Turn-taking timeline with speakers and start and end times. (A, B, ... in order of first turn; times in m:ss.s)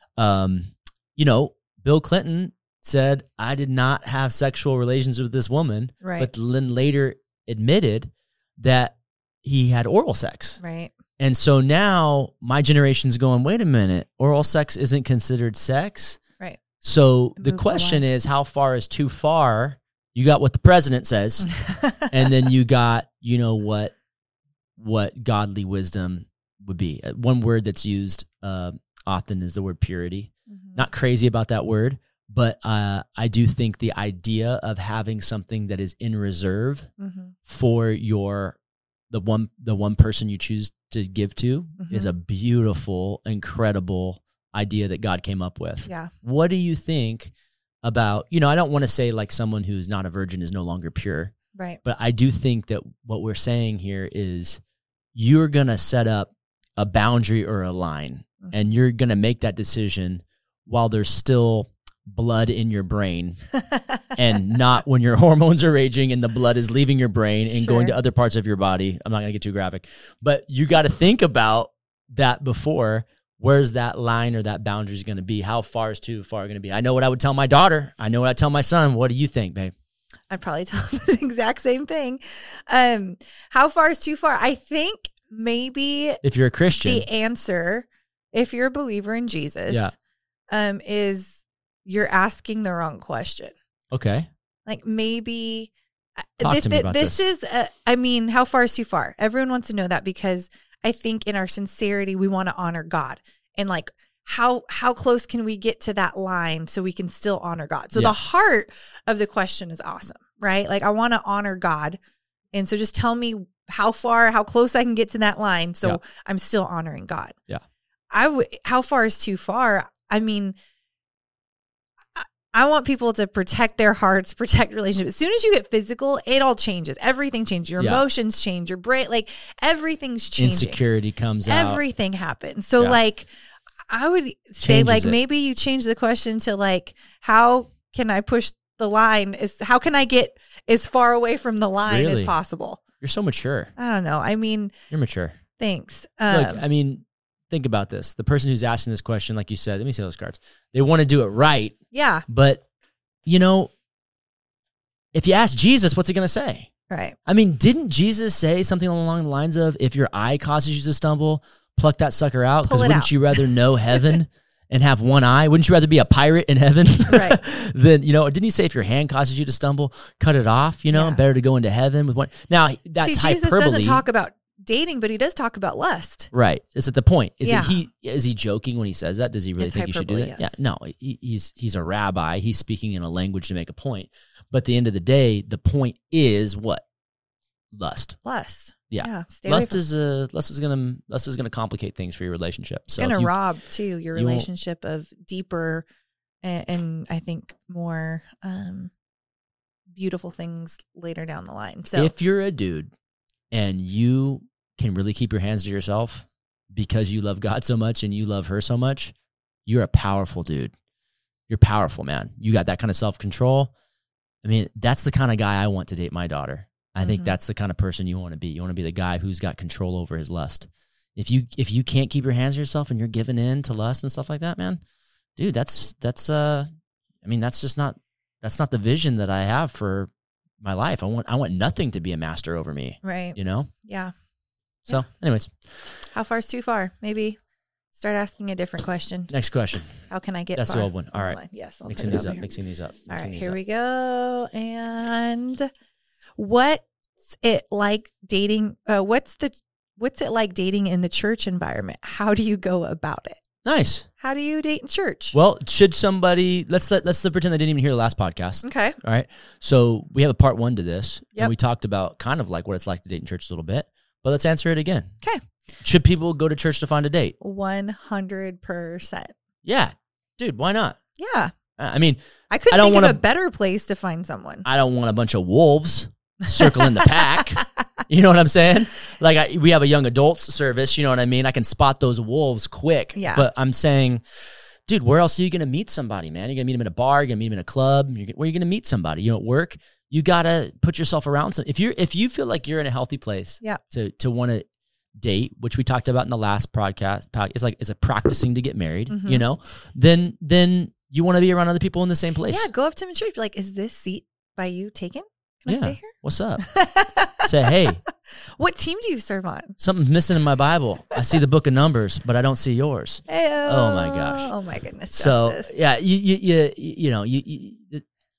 0:00.2-0:10.6 A
0:06.0-0:06.3 B
0:10.6-0:10.9 B
0:11.2-0:16.2 A
0:16.8-0:23.9 A
0:17.4-0:18.0 B
0:21.4-0:22.1 B
0:24.8-0:36.9 A
0:30.5-0:30.8 B
0:37.0-0:37.3 B
0:37.5-0:38.6 A
0:39.1-0:47.3 A
0:41.8-0:42.1 B
0:45.8-0:46.1 B
0:47.8-0:51.3 A
0:51.5-0:51.8 B
0:51.8-0:54.6 A
0:55.1-1:03.4 A
1:04.1-1:19.7 A
1:07.5-1:07.9 B
1:20.3-1:26.2 B
1:26.2-1:27.0 A
1:26.8-1:29.9 B
1:29.7-1:29.9 A
1:30.5-1:33.5 B
1:33.9-1:34.3 A
1:34.6-1:35.7 B
1:36.4-1:52.0 B
1:36.4-1:37.2 A
1:52.5-1:57.3 B
1:58.1-2:00.6 B
2:02.2-2:10.8 B
2:07.8-2:08.0 A
2:10.4-2:11.8 A
2:11.4-2:13.3 B
2:13.9-2:22.8 B
2:14.6-2:15.2 A
2:21.8-2:22.3 A
2:23.0-2:23.7 A
2:23.8-2:24.7 B
2:24.9-2:25.4 A
2:25.6-2:26.6 B
2:26.3-2:31.8 A
2:31.9-2:32.2 B
2:32.3-2:32.6 A
2:33.2-2:33.7 A
2:35.1-2:36.7 A
2:36.9-2:37.2 B
2:37.2-2:54.0 A
2:42.6-2:44.1 B
2:47.1-2:47.4 B
2:50.9-2:51.2 B
2:53.0-2:56.3 B
2:56.3-3:06.8 A
2:57.4-2:57.8 B
2:59.6-3:00.6 B
3:07.7-3:08.2 A
3:08.2-3:09.8 B
3:08.9-3:13.3 A
3:13.0-3:15.8 B
3:14.1-3:14.5 A
3:16.4-3:18.9 B
3:19.9-3:22.1 B
3:21.9-3:22.9 A
3:23.5-3:29.1 A
3:29.6-3:30.7 A
3:31.5-3:33.7 A
3:34.4-3:44.8 A
3:37.0-3:37.4 B
3:45.4-3:46.7 A
3:47.2-3:53.7 A
3:53.0-3:54.1 B
3:54.9-3:55.5 A
3:56.1-3:57.4 B
3:57.9-3:59.3 B
3:59.3-3:59.9 A
4:00.1-4:02.5 B
4:00.5-4:03.6 A
4:03.1-4:05.7 B
4:06.4-4:06.8 B
4:07.4-4:13.4 B
4:13.6-4:14.1 A
4:14.2-4:15.4 B
4:15.3-4:25.1 A
4:18.6-4:19.0 B
4:25.8-4:27.4 A
4:27.4-4:29.3 B
4:29.6-4:31.0 A
4:31.2-4:31.5 B
4:31.8-4:33.2 A
4:32.5-4:34.6 B
4:34.6-4:44.2 A
4:36.4-4:37.2 B
4:43.1-4:43.4 B
4:44.8-5:02.7 A
4:59.1-4:59.4 B
5:02.5-5:07.8 B
5:05.7-5:06.7 A
5:07.4-5:08.0 A
5:08.6-5:09.8 B
5:09.8-5:14.5 A
5:13.3-5:15.7 B
5:15.1-5:18.0 A